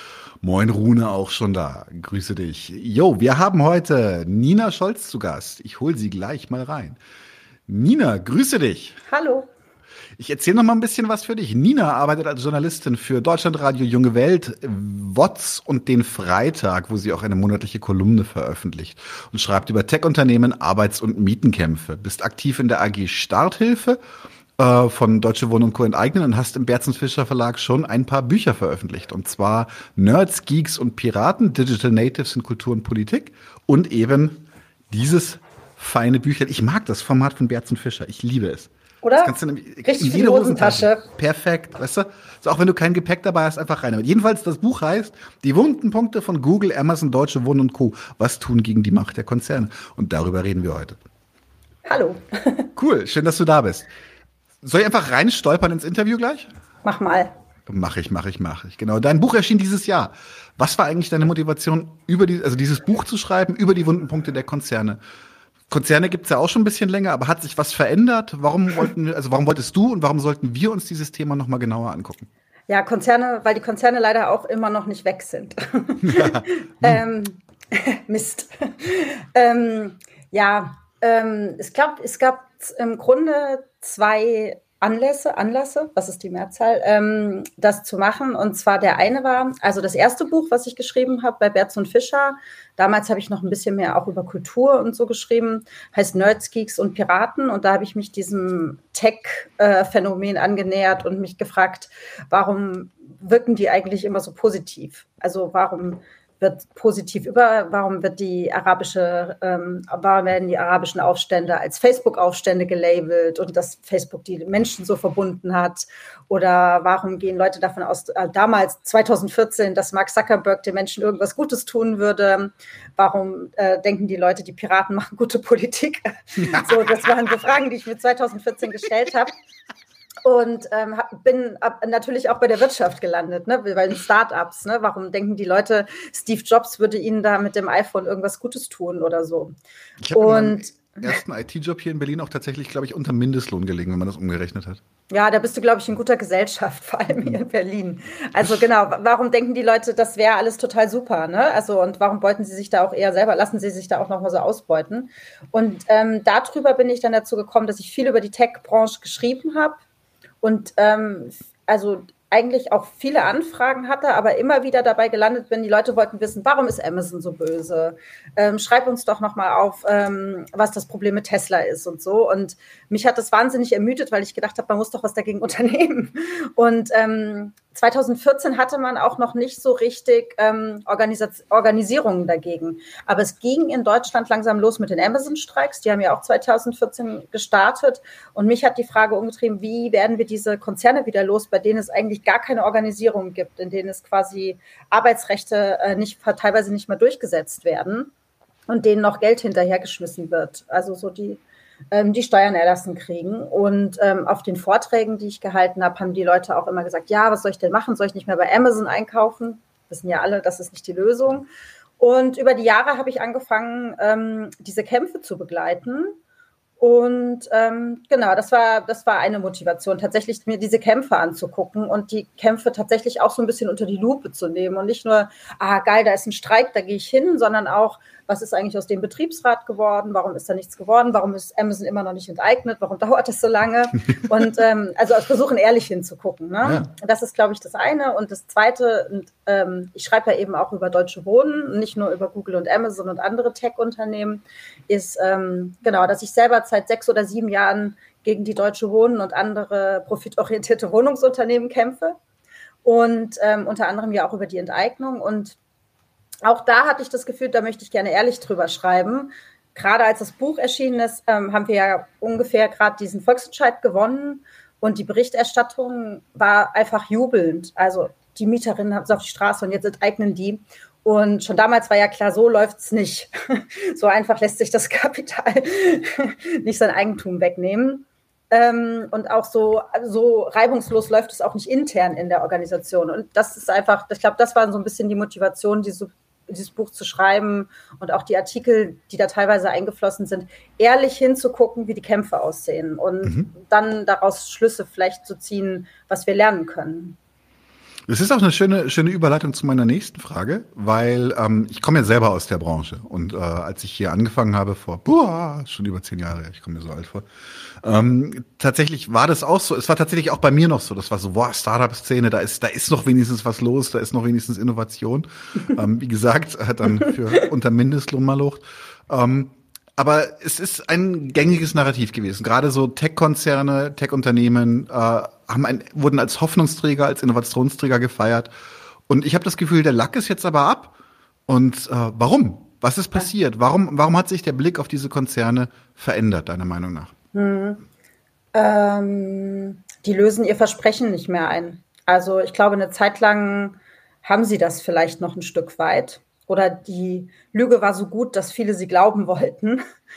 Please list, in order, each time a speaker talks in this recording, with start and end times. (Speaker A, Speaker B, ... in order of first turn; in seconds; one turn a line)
Speaker A: 0.4-7.0
Speaker A: 7.7-9.0
Speaker B: 9.1-9.5
Speaker A: 10.2-24.0
Speaker A: 24.6-38.7
Speaker B: 39.0-41.0
Speaker A: 39.2-51.0
Speaker B: 51.9-52.7
Speaker A: 52.8-53.9
Speaker A: 54.6-56.5
Speaker B: 56.8-57.3
Speaker A: 57.7-65.0
Speaker A: 65.7-72.3
Speaker B: 72.7-129.3
Speaker A: 76.0-77.0
Speaker B: 130.2-139.5
Speaker A: 140.0-144.8
Speaker B: 140.2-141.0
Speaker B: 145.1-159.8
Speaker B: 160.4-198.1
Speaker B: 198.7-201.4
Speaker B: 201.9-211.5
Speaker B: 212.0-216.2
Speaker B: 216.8-252.2
Speaker B: 252.8-255.6
Speaker B: 256.4-297.2
Speaker A: 298.1-307.3
Speaker A: 307.8-328.5
Speaker A: 329.1-330.9
Speaker A: 331.5-337.1
Speaker B: 337.3-337.8
Speaker B: 338.5-349.8